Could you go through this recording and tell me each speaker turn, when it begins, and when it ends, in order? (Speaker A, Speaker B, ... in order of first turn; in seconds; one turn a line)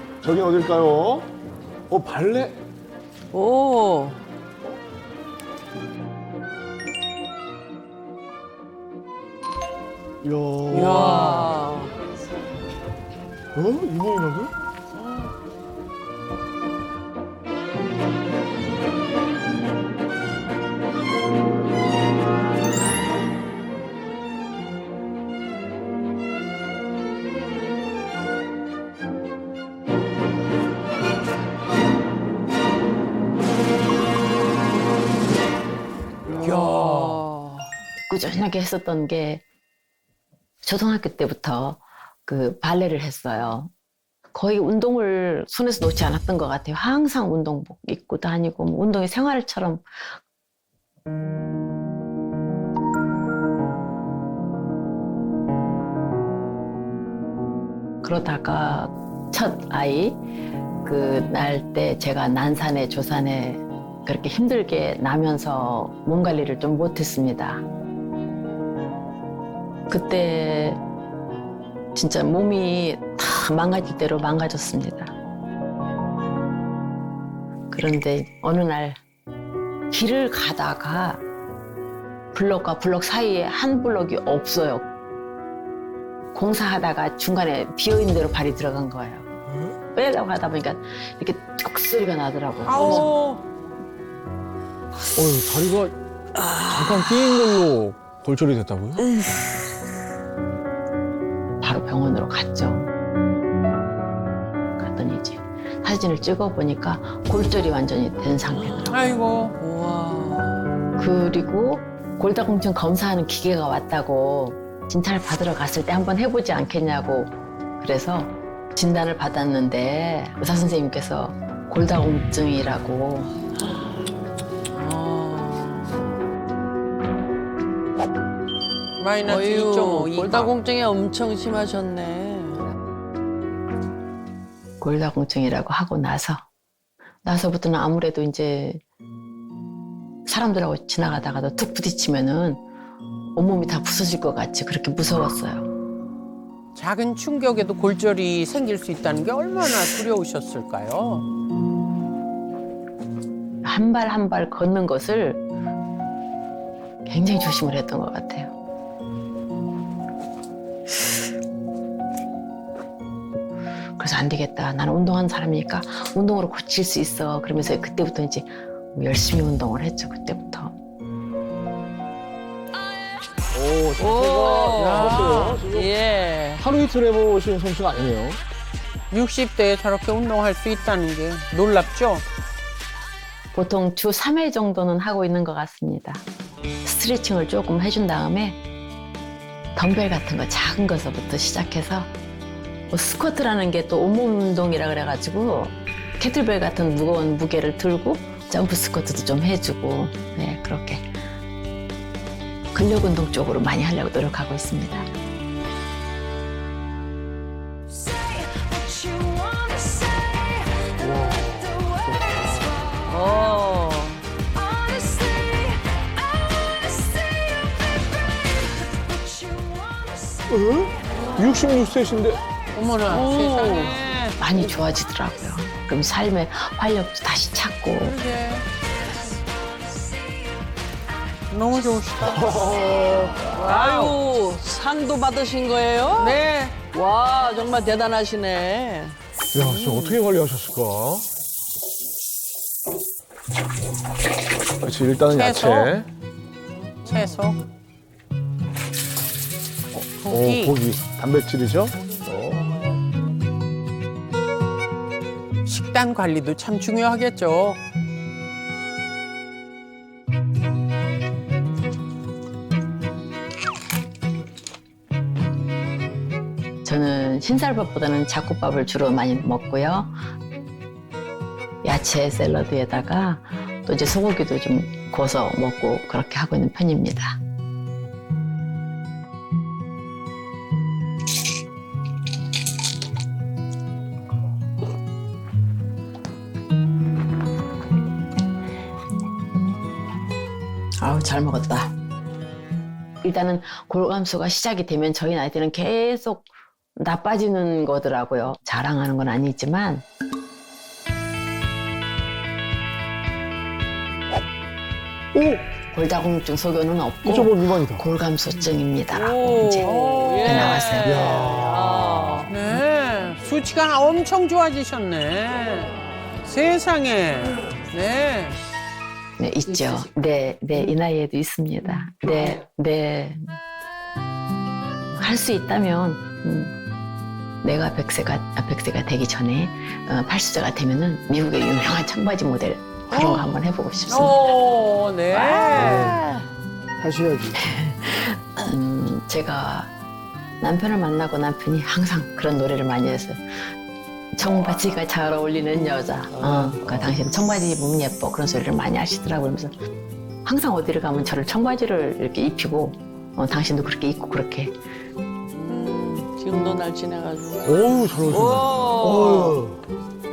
Speaker A: 0.2-1.3
Speaker A: 1.9-2.6
Speaker B: 3.3-4.2
Speaker A: 10.2-11.4
Speaker B: 10.7-11.9
Speaker A: 13.6-14.5
Speaker B: 36.3-37.6
Speaker C: 36.4-37.2
Speaker D: 38.1-39.4
Speaker D: 40.6-43.7
Speaker D: 44.3-50.2
Speaker D: 58.0-60.2
Speaker D: 60.8-67.6
Speaker D: 69.9-70.8
Speaker D: 72.0-75.1
Speaker D: 77.7-79.0
Speaker D: 79.9-81.2
Speaker D: 82.3-84.9
Speaker D: 86.3-89.3
Speaker D: 89.9-93.1
Speaker C: 92.6-93.1
Speaker B: 92.8-93.4
Speaker A: 95.2-96.0
Speaker A: 96.7-99.1
Speaker D: 101.6-102.9
Speaker D: 104.8-109.0
Speaker C: 108.9-109.6
Speaker B: 109.6-110.6
Speaker D: 111.0-123.3
Speaker B: 124.8-126.0
Speaker C: 129.0-130.6
Speaker B: 129.3-132.6
Speaker D: 134.8-136.4
Speaker D: 137.2-138.8
Speaker D: 140.2-142.6
Speaker D: 143.3-145.7
Speaker C: 146.8-151.3
Speaker D: 153.6-155.4
Speaker D: 157.1-158.5
Speaker D: 164.0-170.8
Speaker A: 173.5-175.9
Speaker B: 174.0-176.7
Speaker C: 174.8-175.7
Speaker A: 176.6-178.4
Speaker C: 179.1-182.2
Speaker D: 183.5-186.2
Speaker D: 186.8-188.6
Speaker D: 189.8-192.1
Speaker D: 192.9-201.1
Speaker D: 202.7-205.1
Speaker A: 211.3-212.7
Speaker B: 213.1-214.2
Speaker A: 220.5-222.4
Speaker C: 222.7-224.4
Speaker B: 223.1-224.0
Speaker D: 224.4-228.2
Speaker C: 228.0-228.7
Speaker C: 231.5-232.6
Speaker A: 232.5-232.8
Speaker B: 232.7-239.2
Speaker C: 233.4-234.2
Speaker C: 236.2-236.8
Speaker A: 239.5-241.3
Speaker C: 239.6-240.2
Speaker A: 244.8-246.1
Speaker C: 245.3-246.0
Speaker C: 247.1-247.6
Speaker C: 250.2-250.8
Speaker A: 250.2-252.7
Speaker C: 255.7-257.8
Speaker D: 266.8-270.1
Speaker D: 271.8-277.4
Speaker D: 291.0-291.9
Speaker D: 293.2-300.1
Speaker D: 305.4-311.3
Speaker A: 307.2-308.1
Speaker B: 309.1-312.5
Speaker C: 310.1-310.6
Speaker A: 311.0-312.3
Speaker C: 312.5-318.6
Speaker D: 319.4-323.6
Speaker D: 325.2-326.7
Speaker D: 327.6-334.4
Speaker C: 333.1-333.5
Speaker C: 334.1-336.2
Speaker B: 335.3-336.4
Speaker A: 335.8-336.2
Speaker A: 337.0-337.6
Speaker D: 337.6-339.9
Speaker D: 340.6-343.4
Speaker D: 344.3-349.7
Speaker A: 346.8-347.1
Speaker D: 350.4-354.7
Speaker B: 355.6-359.6
Speaker A: 357.6-359.8